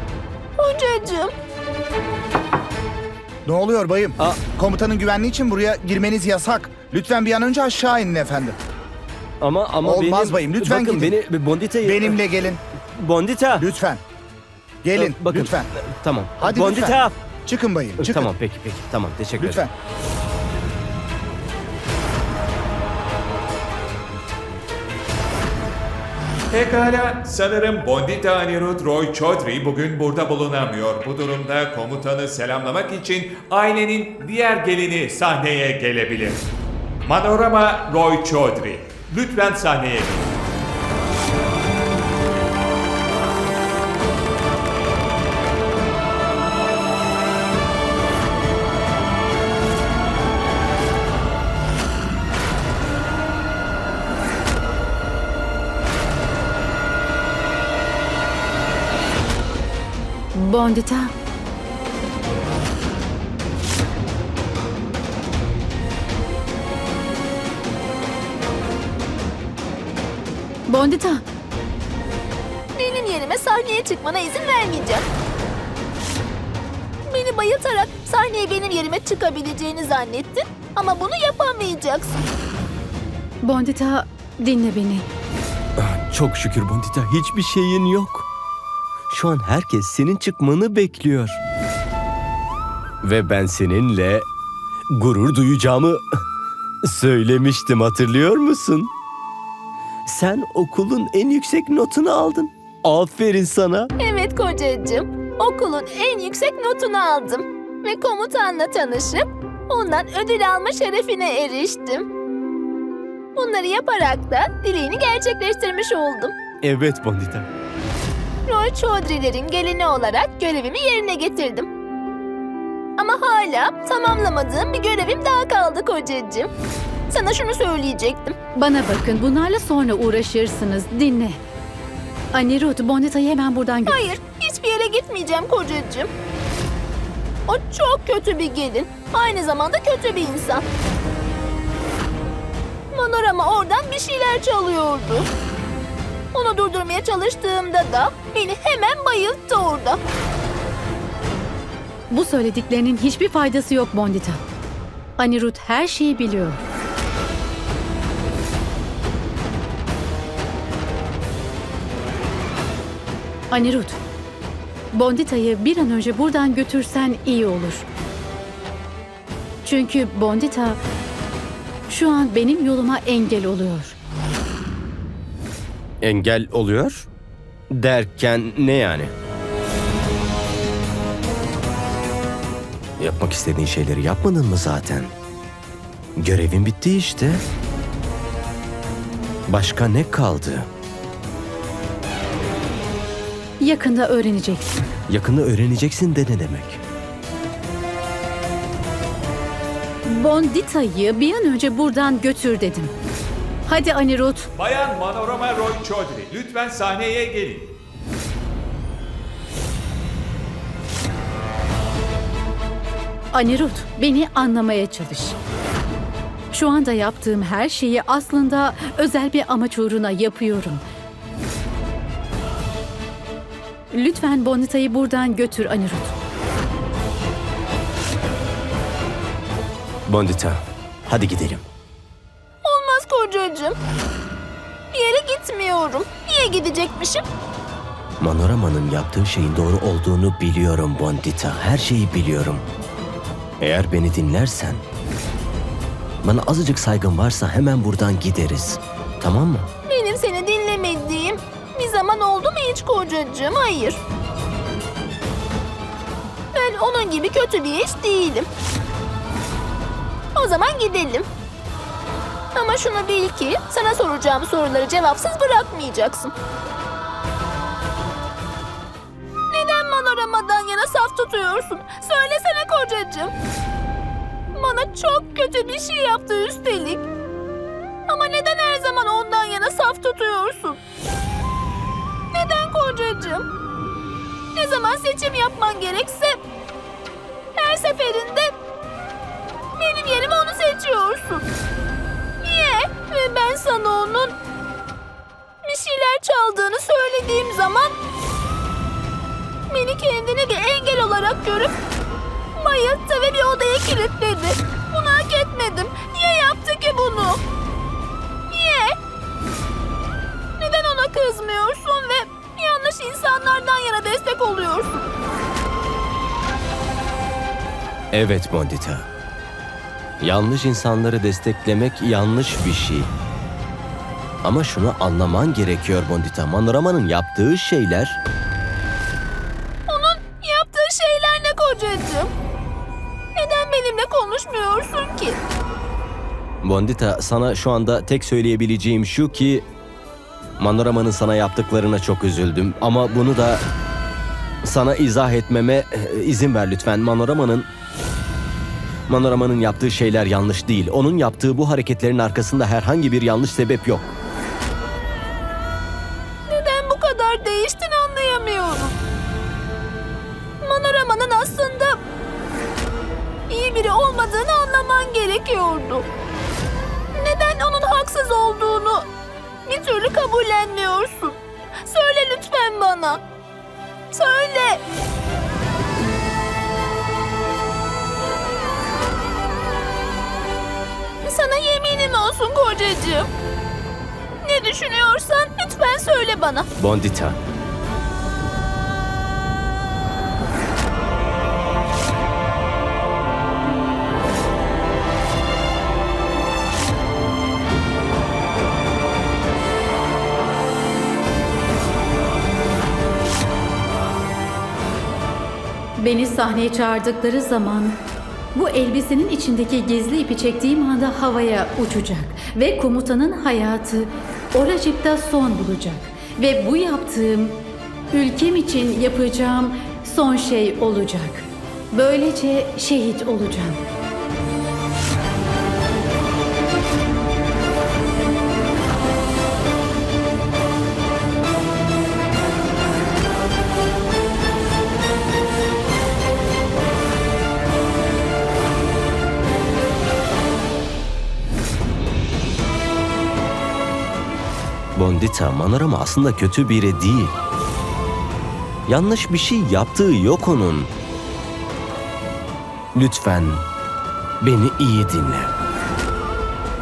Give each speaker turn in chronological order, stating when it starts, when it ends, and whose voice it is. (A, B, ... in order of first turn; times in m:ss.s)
0:00.6-0:01.3 A
0:03.5-0:08.6 B
0:09.4-0:12.2 C
0:09.8-0:11.2 B
0:11.8-0:12.6 B
0:13.0-0:13.7 C
0:13.6-0:14.0 B
0:14.8-0:15.7 B
0:15.0-0:17.2 C
0:16.4-0:18.3 B
0:18.0-0:19.7 C
0:19.4-0:19.7 B
0:26.5-0:36.4 D
0:37.1-0:40.2 D
1:00.3-1:01.1 E
1:10.7-1:11.2 E
1:12.8-1:15.1 A
1:17.1-1:22.3 A
1:23.4-1:25.1 E
1:25.8-1:28.3 C
1:29.1-1:31.4 C
1:33.0-1:34.3 C
1:34.9-1:36.0 C
1:36.8-1:38.9 C
1:40.1-1:43.9 C
1:44.0-1:52.0 A
1:53.4-1:56.3 A
1:56.6-1:57.5 C
1:58.5-2:01.7 A
2:03.0-2:06.5 A
2:07.1-2:08.4 A
2:08.6-2:11.4 E
2:12.3-2:14.0 E
2:13.9-2:16.1 A
2:17.5-2:20.6 A
2:22.9-2:25.3 A
2:26.3-2:30.0 A
2:32.1-2:34.4 E
2:35.2-2:36.6 E
2:43.5-2:44.0 E
2:44.9-2:47.9 E
2:49.6-2:50.8 E
2:51.9-2:54.0 E
2:56.0-2:57.1 C
2:57.7-2:59.1 C
3:03.0-3:05.1 C
3:06.2-3:07.4 C
3:09.5-3:10.7 C
3:13.6-3:14.9 E
3:15.1-3:16.8 C
3:20.0-3:22.9 E
3:23.7-3:24.5 E
3:24.6-3:27.7 D
3:33.3-3:35.4 E
3:36.5-3:40.8 E
3:43.9-3:46.2 E
3:50.1-3:51.6 C
3:52.6-3:53.8 A
3:54.9-3:57.2 A
3:58.2-4:02.6 C
4:03.6-4:04.8 C
4:06.2-4:09.7 C
4:09.9-4:14.0 A
4:16.5-4:18.5 A
4:20.4-4:21.3 A
4:22.6-4:26.3 A
4:29.5-4:33.3 A
4:34.6-4:37.0 A
4:38.1-4:40.8 A
4:42.3-4:43.4 A
4:44.6-4:46.4 A
4:47.6-4:48.5 A
4:49.8-4:51.4 A
4:52.4-4:54.3 A
4:55.6-4:57.9 A
4:59.7-5:01.7 A
5:02.6-5:07.4 A
5:08.5-5:08.9 A
5:10.6-5:15.1 A
5:18.1-5:19.1 C
5:20.2-5:23.1 C
5:24.4-5:28.2 C
5:29.9-5:32.3 A
5:33.4-5:35.4 A
5:36.6-5:39.7 C
5:40.6-5:43.6 C
5:44.6-5:47.7 C
5:49.1-5:54.1 C
5:56.5-5:59.0 A
6:00.6-6:02.0 A
6:03.5-6:06.0 A
6:07.2-6:09.1 A
6:09.7-6:13.2 A
6:14.1-6:14.8 A
6:21.2-6:23.3 A
6:24.4-6:26.7 A
6:26.8-6:27.4 C
6:46.0-6:48.0 E
6:48.6-7:03.8 E
7:25.0-7:27.4 C
7:28.9-7:30.9 C
7:33.0-7:33.6 C
7:34.4-7:35.5 C